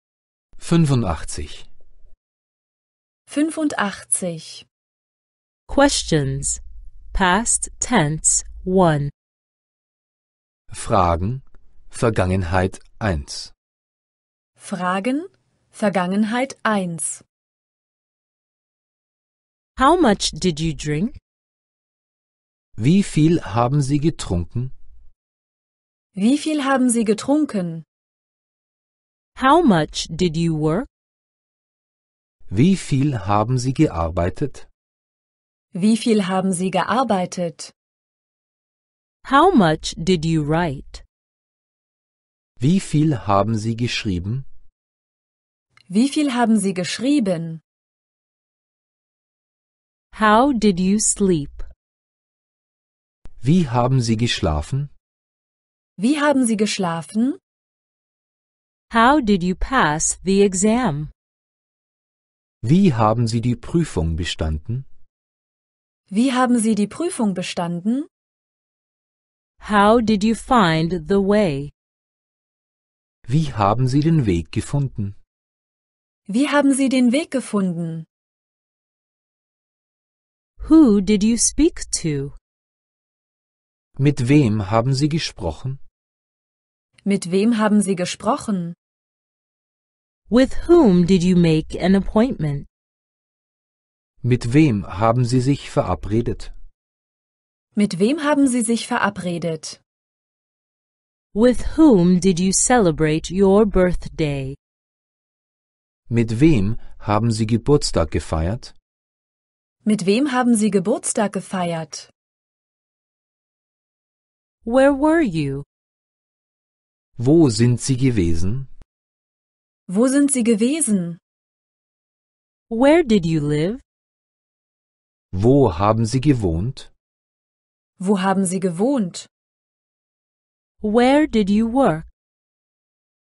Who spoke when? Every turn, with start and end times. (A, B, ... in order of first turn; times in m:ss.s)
0:00.6-0:01.7 A
0:03.3-0:04.7 B
0:05.7-0:06.6 C
0:07.1-0:09.1 C
0:10.7-0:13.5 A
0:14.6-0:17.2 B
0:19.8-0:21.2 C
0:22.8-0:24.7 A
0:26.2-0:27.8 B
0:29.4-0:30.9 C
0:32.5-0:34.7 A
0:35.7-0:37.7 B
0:39.2-0:41.0 C
0:42.6-0:44.4 A
0:45.9-0:47.6 B
0:50.1-0:51.7 C
0:53.4-0:54.9 A
0:56.0-0:57.4 B
0:58.9-1:01.1 C
1:02.6-1:04.8 A
1:06.1-1:08.1 B
1:09.6-1:11.7 C
1:13.2-1:15.2 A
1:16.3-1:18.1 B
1:20.6-1:22.3 C
1:24.0-1:25.8 A
1:27.0-1:28.7 B
1:30.3-1:32.7 C
1:34.2-1:36.5 A
1:37.8-1:39.8 B
1:41.3-1:44.6 C
1:46.1-1:48.7 A
1:49.8-1:52.1 B
1:54.6-1:55.6 C
1:57.2-1:58.7 A
1:59.9-2:01.2 B
2:02.7-2:03.8 C
2:05.3-2:06.9 A
2:08.0-2:09.3 B
2:10.8-2:12.1 C